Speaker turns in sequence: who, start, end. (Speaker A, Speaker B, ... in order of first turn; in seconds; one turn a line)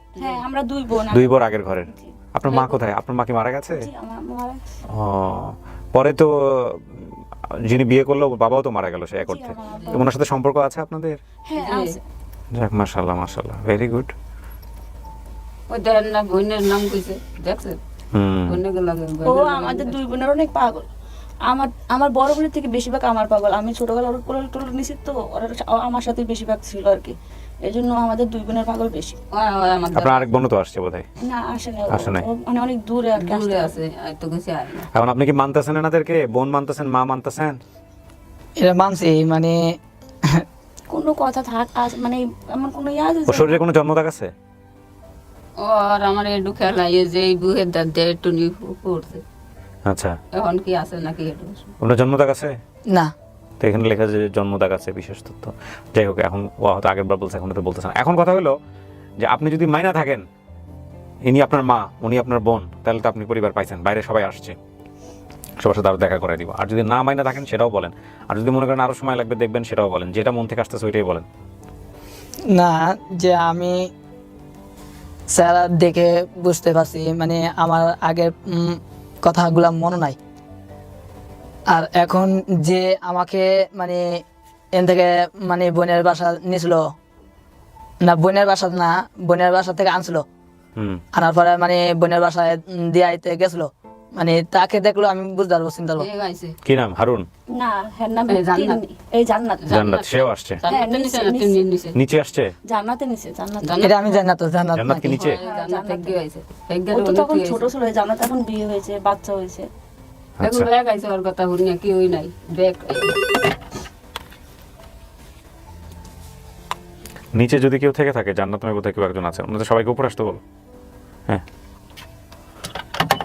Speaker A: 0.2-0.4
Speaker B: 0.2-2.1
Speaker C: 1.1-3.9
Speaker A: 2.5-2.7
Speaker B: 3.7-4.6
Speaker C: 4.9-11.2
Speaker B: 9.2-10.1
Speaker A: 9.7-10.0
Speaker B: 11.5-12.0
Speaker A: 11.6-12.0
Speaker C: 12.5-14.1
Speaker A: 15.7-17.8
Speaker C: 18.1-18.6
Speaker A: 18.5-20.0
Speaker B: 19.2-20.9
Speaker B: 21.5-29.2
Speaker A: 29.3-30.3
Speaker C: 29.9-31.1
Speaker B: 31.2-33.8
Speaker C: 31.9-32.3
Speaker A: 33.2-34.9
Speaker C: 34.9-37.6
Speaker D: 38.6-40.4
Speaker B: 40.9-43.5
Speaker C: 43.3-44.3
Speaker A: 45.6-49.2
Speaker C: 49.9-50.2
Speaker A: 50.4-51.7
Speaker C: 51.8-52.6
Speaker C: 53.6-58.5
Speaker C: 59.2-60.3
Speaker C: 61.3-64.6
Speaker C: 65.6-71.3
Speaker D: 72.5-73.9
Speaker D: 75.3-80.2
Speaker D: 81.7-84.2
Speaker D: 84.8-86.9
Speaker D: 88.0-90.2
Speaker C: 90.8-91.0
Speaker D: 91.2-96.1
Speaker A: 96.0-96.6
Speaker C: 96.7-97.3
Speaker B: 97.5-99.8
Speaker A: 98.3-98.8
Speaker A: 99.7-102.0
Speaker C: 99.7-100.6
Speaker B: 100.7-101.6
Speaker C: 101.9-102.5
Speaker B: 102.7-104.1
Speaker A: 103.6-103.9
Speaker D: 103.8-105.2
Speaker C: 104.8-105.4
Speaker A: 105.2-107.7
Speaker B: 105.3-106.2
Speaker B: 106.9-109.7
Speaker C: 110.4-110.7
Speaker A: 110.4-113.2
Speaker C: 117.3-120.4